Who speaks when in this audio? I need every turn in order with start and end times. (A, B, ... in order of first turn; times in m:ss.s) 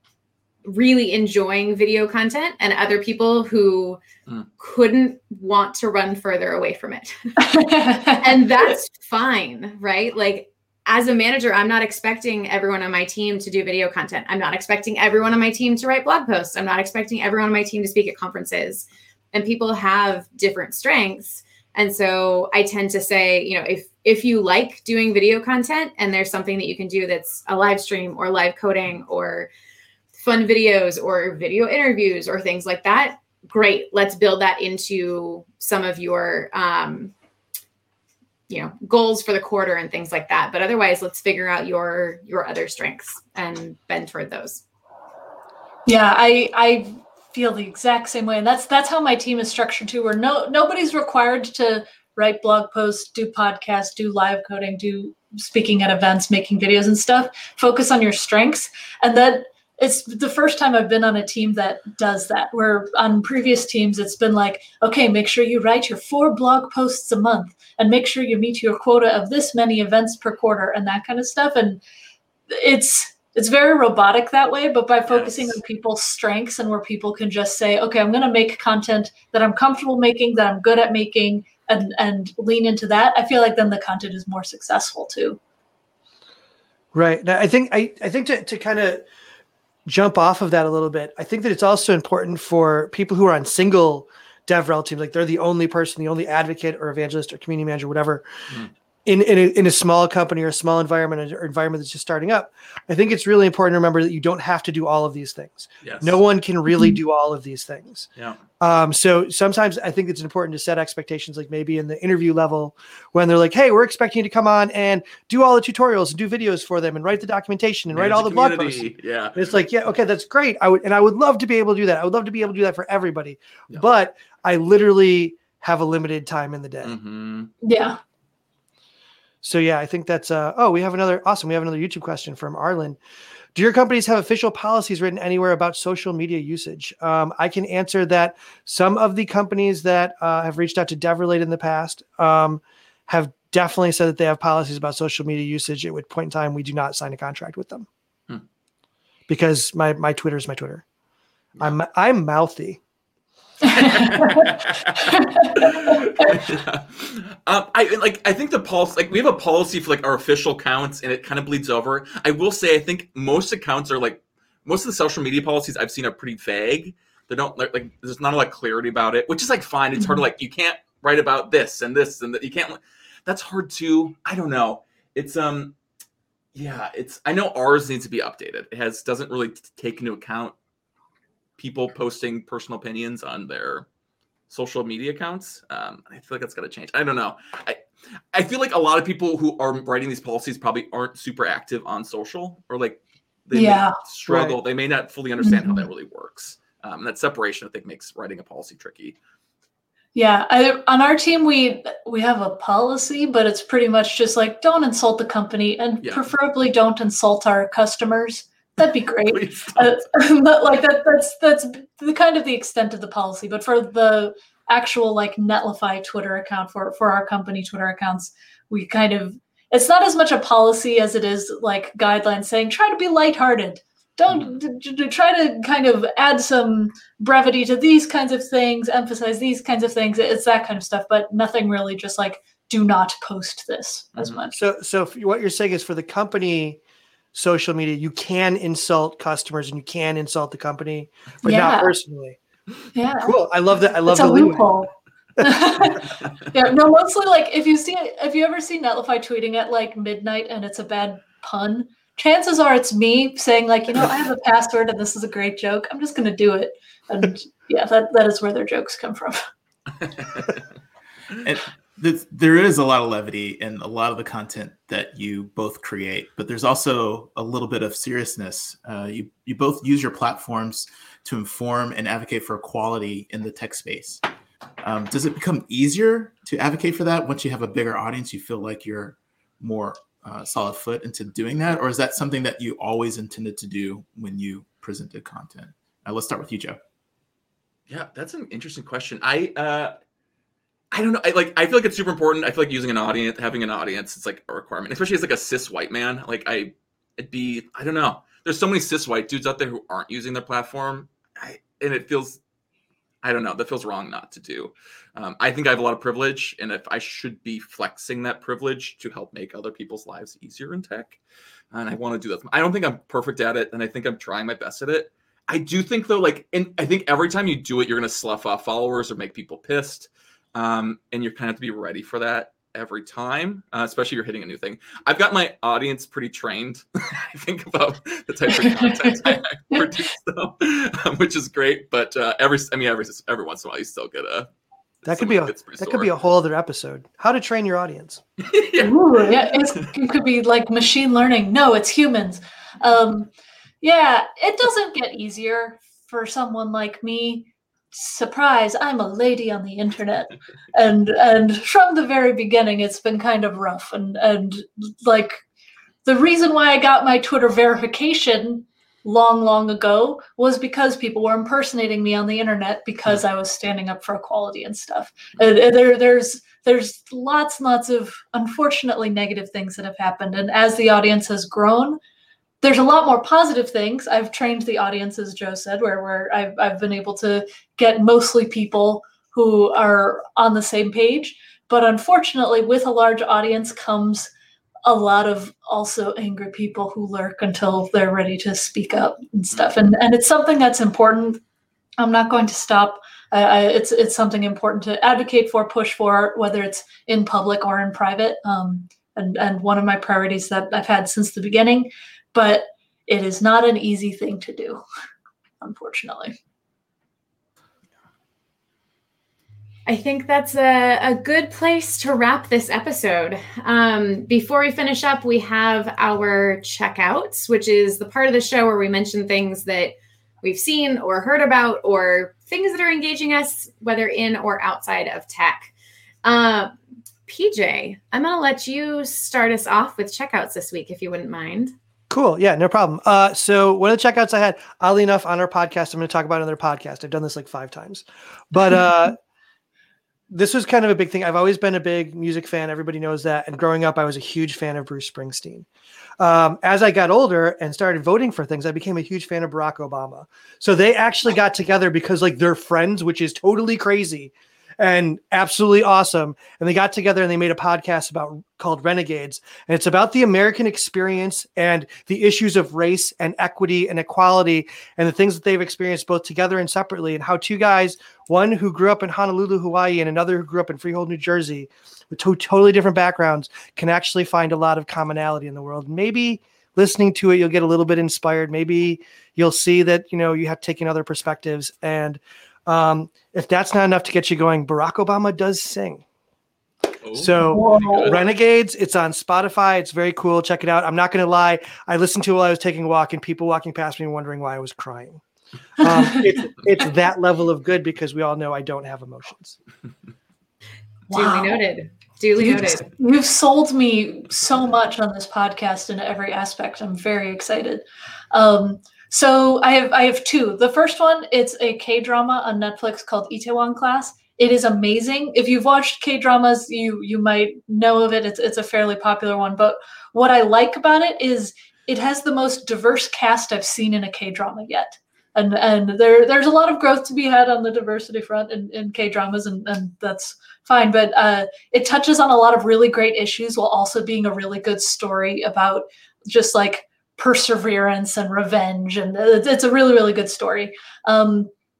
0:00.6-0:04.0 A
0:04.6-0:07.3 A
0:07.4-0:08.7 B
0:08.2-0:29.5 A
0:30.1-0:37.1 A
0:38.5-0:44.6 A
0:45.8-1:11.8 B
1:12.5-1:25.4 B
1:15.0-1:15.6 C
1:26.9-1:29.0 D
1:29.8-1:38.2 D
1:39.0-1:48.1 D
1:45.8-1:46.2 C
1:46.7-1:47.0 B
1:48.6-2:07.0 D
1:57.9-1:59.6 C
2:06.8-2:07.5 C
2:07.6-2:08.0 B
2:09.4-2:13.0 D
2:13.5-2:27.9 D
2:29.3-2:30.8 D
2:31.6-2:32.8 D
2:33.6-2:36.4 B
2:33.7-2:55.7 C
2:56.5-3:00.5 C
3:01.6-3:03.8 C
3:04.5-3:19.2 C
3:13.5-3:14.0 B
3:14.2-3:14.6 D
3:15.4-3:15.8 B
3:20.1-3:54.6 B
3:26.0-3:26.3 C
3:29.3-3:30.0 C
3:54.5-3:56.8 D
3:57.3-4:02.4 D
4:01.4-4:01.9 B
4:02.9-4:03.3 B
4:03.2-4:04.7 D
4:04.0-4:19.4 B
4:20.2-4:20.5 C
4:21.4-4:34.2 E
4:34.8-4:46.8 E
4:47.9-4:50.0 C
4:50.9-5:02.4 C
5:03.2-5:11.2 C
5:11.7-5:34.5 C
5:29.1-5:29.9 B
5:35.0-5:36.1 C
5:35.0-5:38.2 D
5:38.4-5:38.9 C
5:38.8-5:43.3 B
5:43.8-5:55.4 B
5:56.0-6:12.0 B
6:12.6-6:24.3 B
6:24.8-6:31.4 B
6:32.0-6:44.8 B
6:45.6-6:46.3 B
6:49.8-7:05.7 A
7:06.2-7:06.7 A
7:07.2-7:11.7 A
7:12.1-7:19.2 D
7:20.3-7:25.7 D
7:26.2-8:06.0 D
8:07.0-8:08.2 C
8:07.1-8:15.2 D
8:07.4-8:08.2 B
8:15.8-8:19.6 D
8:15.8-8:16.4 B
8:21.1-8:21.6 B
8:21.1-8:22.9 A
8:22.4-9:01.5 B